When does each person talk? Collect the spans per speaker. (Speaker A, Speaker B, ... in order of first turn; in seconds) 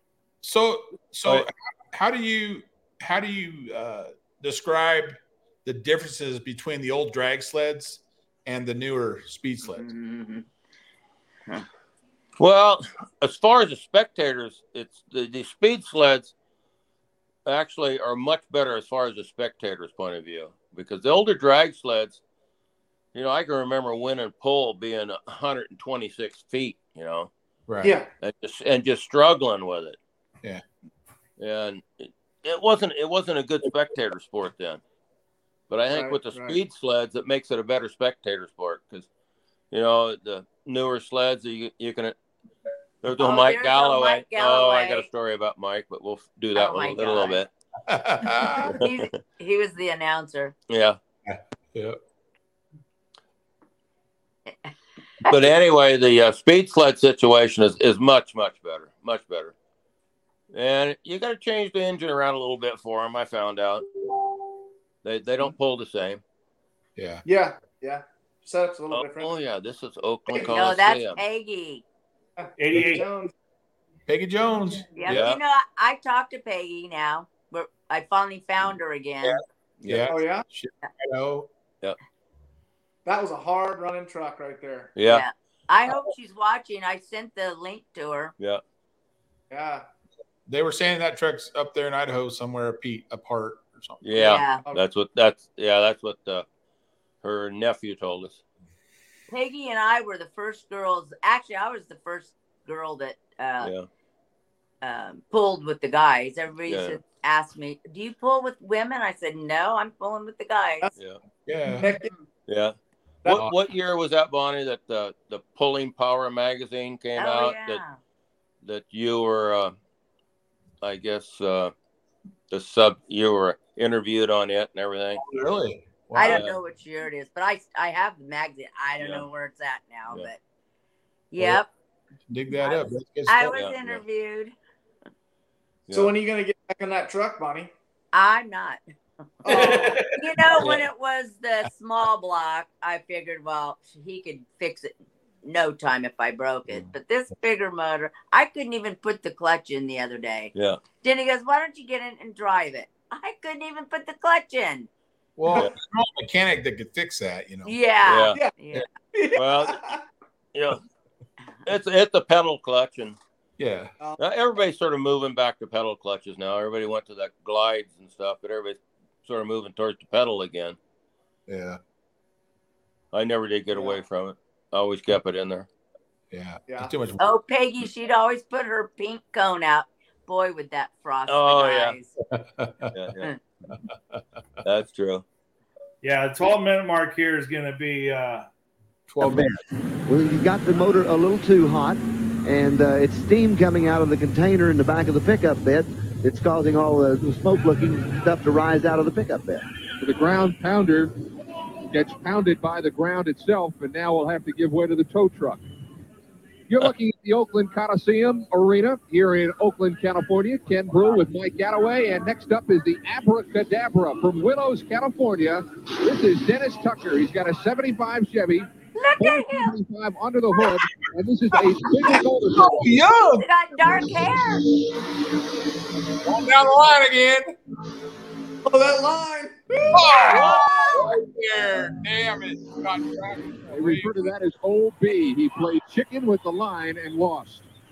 Speaker A: 0.4-9.9, 27.7-28.0, 47.9-48.8, 51.2-52.0, 67.0-67.2, 74.1-75.3, 79.8-81.5, 90.5-94.3, 111.5-111.9, 125.2-126.5, 132.3-133.6, 155.4-157.8, 163.6-163.9, 171.5-171.8, 176.3-177.3, 182.3-182.9, 183.7-184.2, 189.1-189.6, 221.5-224.9, 226.2-227.5, 229.9-234.3
Speaker B: 9.7-10.4, 43.2-45.1, 46.5-47.4, 48.7-50.5, 70.5-71.8, 74.9-79.4, 85.0-88.3, 94.2-94.7, 99.3-103.7, 104.8-110.9, 117.2-118.0, 126.1-130.4, 131.3-131.7, 132.6-134.5, 138.1-138.8, 139.4-154.9, 157.6-158.9, 177.2-182.1, 218.9-219.7, 223.3-224.7, 230.2-230.5
Speaker C: 12.4-16.3, 17.4-22.2, 23.1-27.3, 28.2-30.0, 31.4-34.8, 35.7-39.1, 39.7-42.1, 43.0-47.5, 48.7-49.2, 50.7-51.0, 55.3-59.5, 60.5-63.8, 65.0-66.2, 68.9-71.2, 75.0-75.4, 79.8-80.1, 84.9-85.2, 94.0-96.4, 97.2-98.4, 103.6-103.9, 106.7-107.0, 112.5-112.7, 113.2-117.8, 118.6-119.7, 120.8-121.7, 122.5-125.2, 126.2-126.6, 129.0-129.2, 133.4-134.0, 140.5-140.9, 150.5-150.8, 158.0-158.4, 159.3-159.8, 160.5-160.8, 161.6-163.2, 164.2-170.8, 173.1-175.7, 181.3-181.9, 182.9-183.3, 184.6-185.2
Speaker D: 27.8-28.1, 35.9-36.6, 67.2-69.3, 70.3-70.6, 72.4-73.3, 80.1-80.5, 83.0-84.9, 89.5-89.8, 94.2-94.8, 111.8-112.1, 135.9-137.7, 139.4-140.2, 158.3-158.6, 159.1-160.0, 173.7-174.0, 228.6-231.1
Speaker E: 72.6-73.0, 139.5-140.0, 186.0-188.5
Speaker F: 189.2-189.5, 190.1-199.7
Speaker G: 200.0-201.1, 201.9-205.7, 206.7-223.0, 233.7-237.7